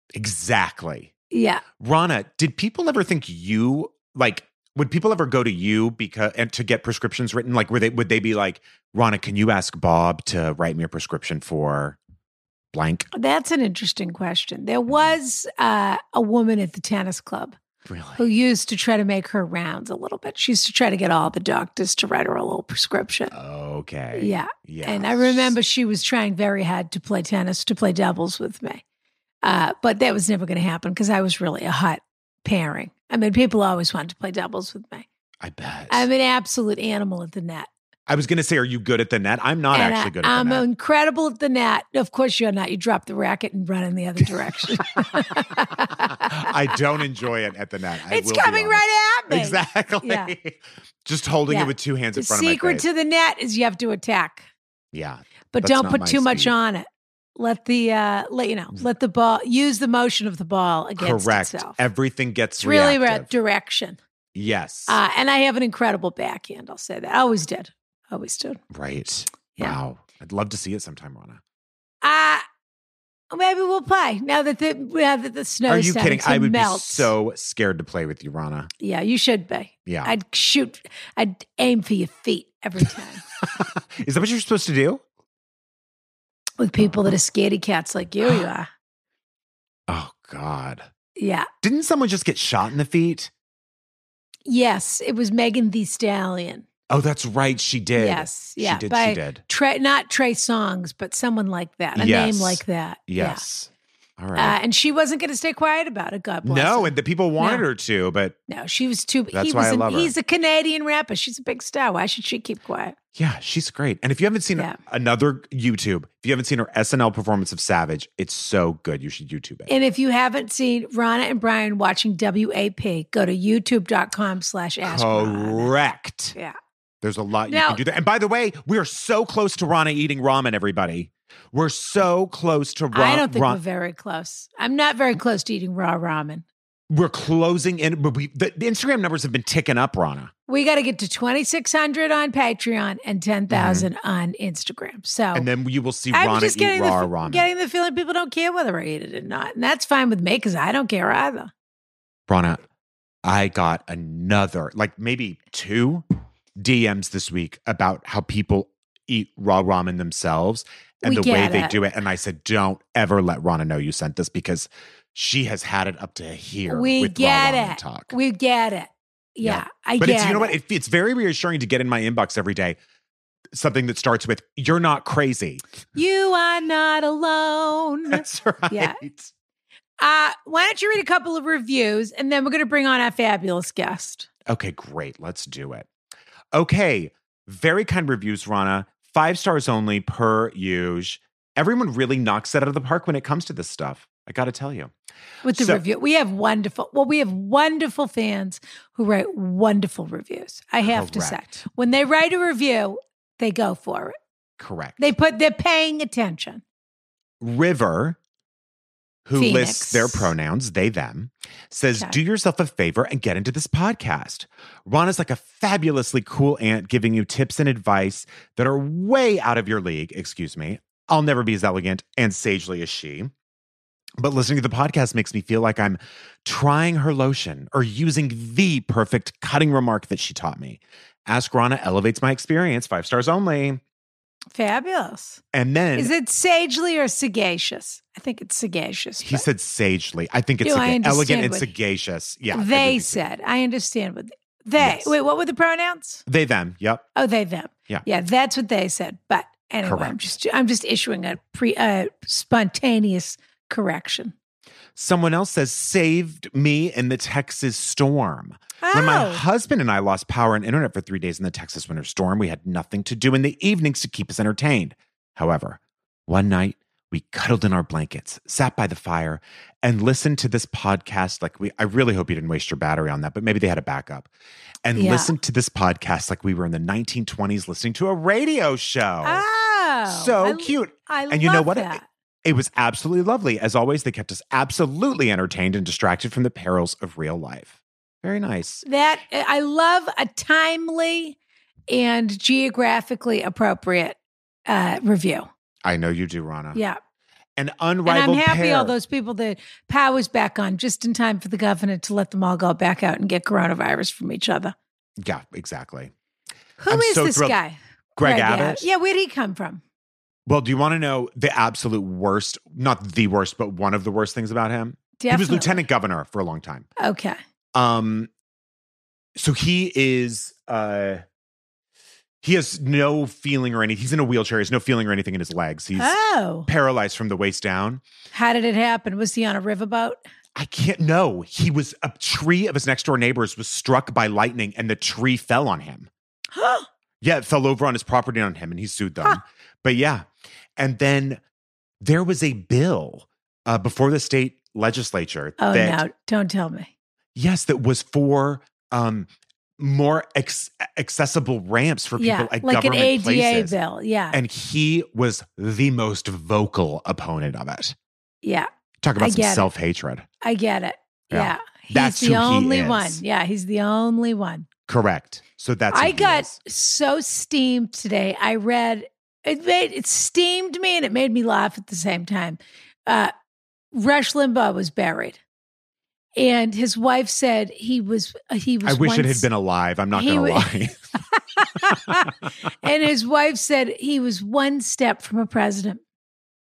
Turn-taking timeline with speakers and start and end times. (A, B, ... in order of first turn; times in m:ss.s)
0:00.1-0:01.1 A
0:01.3-0:01.6 B
0:01.8-0:12.0 A
0:12.7-0:13.1 A
0:13.1-0:17.6 B
0:17.9-0:18.2 A
0:18.2-0:23.3 B
0:23.3-0:25.6 A
0:24.1-0:28.8 B
0:29.4-0:35.1 B
0:35.4-0:36.1 A
0:35.9-0:37.7 B
0:38.1-0:40.6 A
0:39.7-0:46.5 B
0:44.7-0:52.9 A
0:48.1-0:50.3 B
0:51.5-0:54.5 B
0:54.9-0:56.5 A
0:55.5-1:01.8 B
1:01.0-1:03.3 A
1:02.6-1:04.0 B
1:04.4-1:05.0 A
1:04.9-1:08.6 B
1:08.7-1:11.4 A
1:12.0-1:12.5 B
1:13.3-1:17.1 B
1:15.7-1:18.7 A
1:18.8-1:23.2 B
1:19.9-1:20.1 A
1:23.4-1:25.0 A
1:26.6-1:28.7 B
1:29.9-1:30.9 A
1:31.2-1:31.5 B
1:31.6-1:33.3 A
1:34.5-1:36.6 B
1:36.9-1:39.4 A
1:38.0-1:43.4 B
1:42.0-1:44.6 A
1:44.4-1:47.6 B
1:46.4-1:48.4 A
1:48.5-1:53.0 B
1:49.3-1:50.1 A
1:53.2-1:59.7 A
1:59.7-2:05.7 B
2:04.8-2:06.4 A
2:07.0-2:13.6 A
2:07.5-2:07.8 B
2:12.9-2:16.4 B
2:16.9-2:20.3 A
2:20.5-2:25.5 B
2:23.5-2:23.9 A
2:25.3-2:27.5 A
2:26.1-2:31.5 B
2:32.3-2:32.6 A
2:33.2-2:36.0 A
2:36.6-2:48.1 A
2:41.0-2:41.8 B
2:46.7-2:50.6 B
2:49.4-2:52.8 A
2:53.5-2:55.6 A
2:56.0-2:59.0 B
2:58.1-2:59.3 A
3:00.0-3:04.3 B
3:04.5-3:05.9 A
3:06.5-3:14.9 A
3:15.4-3:24.2 B
3:15.5-3:15.8 A
3:20.9-3:21.4 A
3:24.6-3:25.0 A
3:25.0-3:26.6 B
3:27.4-3:28.2 A
3:29.2-3:43.3 A
3:29.4-3:30.3 B
3:44.2-3:53.8 A
3:54.5-3:55.4 B
3:55.5-3:56.1 A
3:56.0-3:59.4 B
3:59.2-4:03.2 A
4:00.6-4:01.7 B
4:02.5-4:06.2 B
4:04.8-4:05.1 A
4:06.3-4:07.1 A
4:07.2-4:14.3 B
4:09.8-4:10.3 A
4:15.0-4:34.3 A
4:18.8-4:19.4 B
4:34.8-4:39.4 A
4:35.0-4:35.3 B
4:39.2-4:42.0 B
4:40.1-4:48.8 A
4:48.8-4:51.4 B
4:51.9-4:55.5 B
4:55.8-4:56.8 A
4:57.6-4:59.0 A
4:58.0-5:04.8 B
5:05.2-5:06.1 A
5:06.8-5:09.8 B
5:06.9-5:07.6 A
5:08.2-5:08.9 A
5:10.5-5:16.9 A
5:15.2-5:15.8 B
5:17.0-5:17.4 B
5:17.8-5:18.3 A
5:19.4-5:21.2 A
5:22.4-5:26.2 A
5:26.0-5:26.7 B
5:26.7-5:28.0 A
5:28.3-5:30.2 B
5:30.5-5:36.1 A
5:36.5-5:36.9 B
5:37.2-5:40.2 A
5:40.8-5:41.4 A
5:42.0-5:46.0 A
5:45.6-5:46.9 B
5:47.4-5:49.3 A
5:49.8-5:53.8 A
5:52.2-5:54.4 B
5:54.3-5:58.0 A
5:58.4-5:59.7 B
5:59.0-6:00.2 A
6:00.4-6:04.7 B
6:01.3-6:03.2 A
6:04.9-6:06.5 A
6:05.9-6:13.3 B
6:13.9-6:15.4 B
6:16.4-6:19.5 B
6:18.8-6:21.0 A
6:20.1-6:20.8 B
6:21.4-6:22.3 B
6:21.9-6:22.2 A
6:22.8-6:26.0 B